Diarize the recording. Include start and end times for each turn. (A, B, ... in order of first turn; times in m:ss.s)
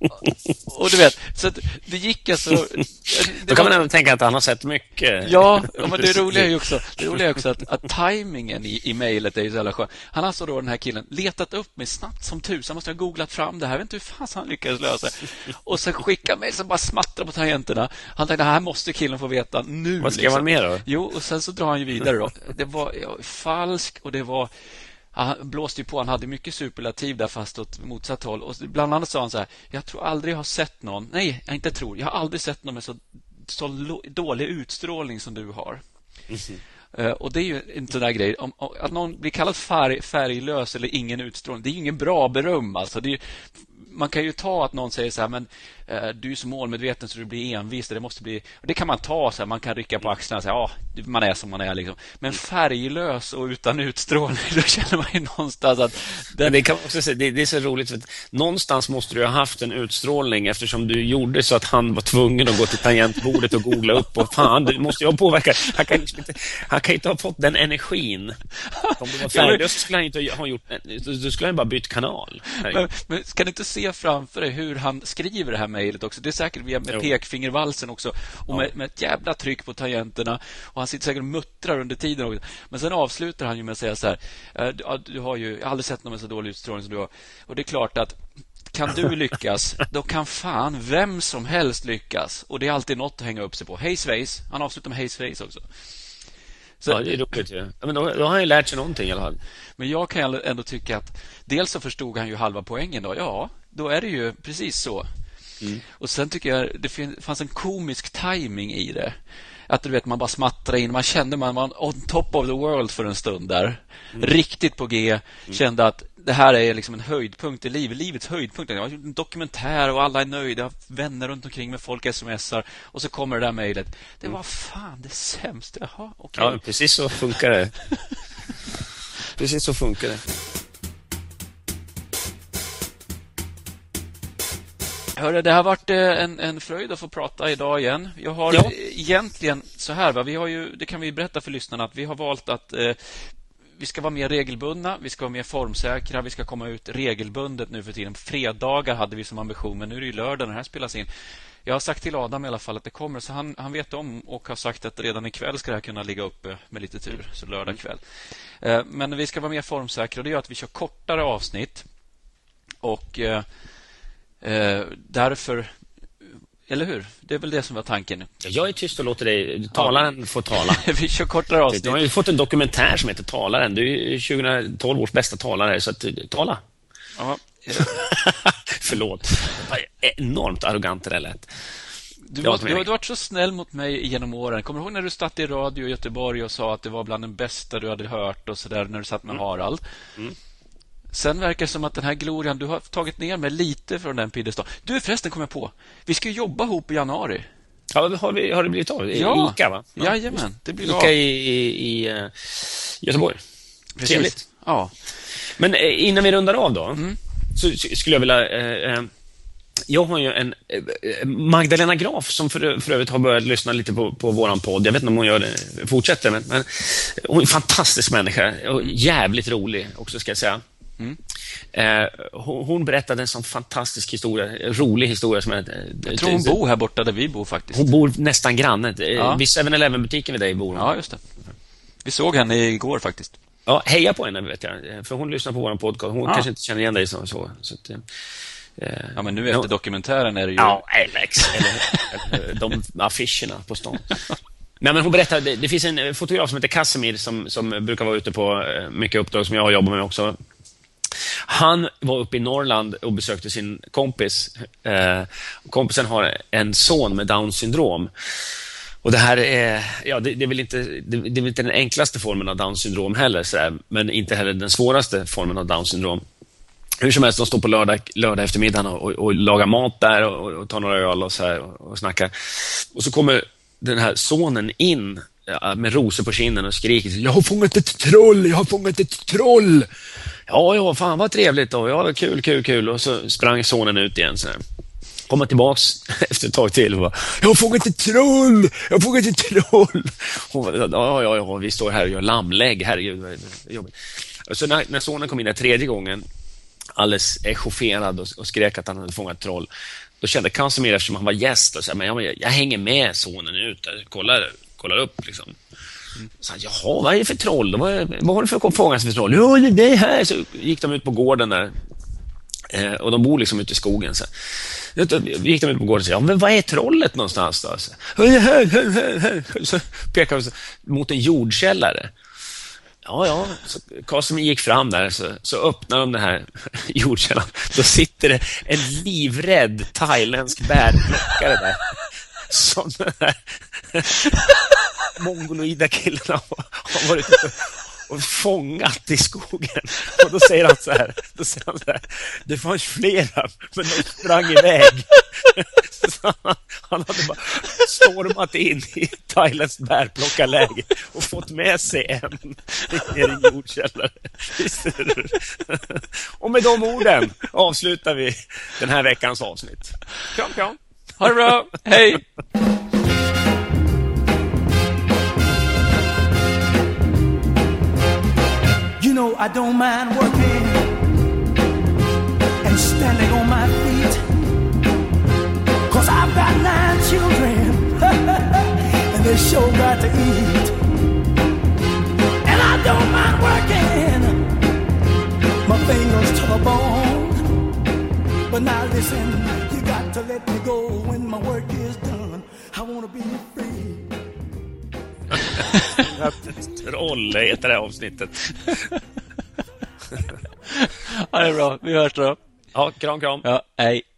0:00.7-0:03.8 A
0:03.2-0:06.6 B
0:05.2-0:24.5 A
0:20.0-0:20.8 B
0:25.1-0:35.8 A
0:36.3-0:36.6 B
0:36.9-0:56.6 A
0:56.4-1:08.4 B
1:08.7-1:09.7 A
1:09.0-1:12.8 B
1:12.6-1:28.2 A
1:28.7-1:35.6 A
1:36.8-1:37.2 A
1:36.9-1:39.4 B
1:39.8-1:45.1 A
1:46.0-1:49.2 A
1:49.7-2:06.6 A
2:06.4-2:07.7 B
2:09.4-2:10.2 B
2:15.2-2:31.1 A
2:31.6-2:38.0 A
2:38.6-2:41.9 A
2:42.8-2:43.4 A
2:44.4-2:45.8 A
2:46.7-2:48.3 A
2:48.4-2:50.8 B
2:49.7-2:52.1 A
2:51.7-2:56.6 B
2:57.2-2:58.1 A
2:57.8-3:01.5 B
3:02.3-3:09.8 A
3:02.4-3:02.9 B
3:11.1-3:17.5 A
3:17.9-3:23.4 B
3:19.1-3:21.1 A
3:24.0-3:24.9 A
3:24.0-3:24.4 B
3:25.6-3:27.0 B
3:27.6-3:29.1 B
3:29.9-3:40.6 B
3:41.7-3:46.6 B
3:46.0-3:47.9 A
3:47.7-3:50.9 B
3:49.2-3:49.4 A
3:50.8-3:51.2 A
3:52.0-3:53.4 A
3:53.7-3:58.0 B
3:58.8-3:59.7 B
3:59.2-4:00.8 A
4:00.6-4:04.2 B
4:01.4-4:02.1 A
4:04.8-4:10.4 B
4:11.4-4:18.1 B
4:19.0-4:26.2 B
4:27.0-4:39.9 B
4:40.5-4:44.6 B
4:45.3-4:56.2 B
4:57.0-4:59.7 B
5:00.2-5:05.6 B
5:06.3-5:11.7 B
5:12.7-5:22.1 B
5:23.0-5:34.2 B
5:35.2-6:01.4 B
6:01.2-6:02.2 A
6:09.0-6:11.0 C
6:12.6-6:14.2 C
6:15.9-6:20.8 C
6:22.4-6:24.4 C
6:25.6-6:27.4 C
6:28.5-6:34.1 C
6:35.4-6:36.1 A
6:36.0-6:38.9 B
6:40.7-6:42.4 A
6:42.8-6:43.5 B
6:43.4-6:44.0 A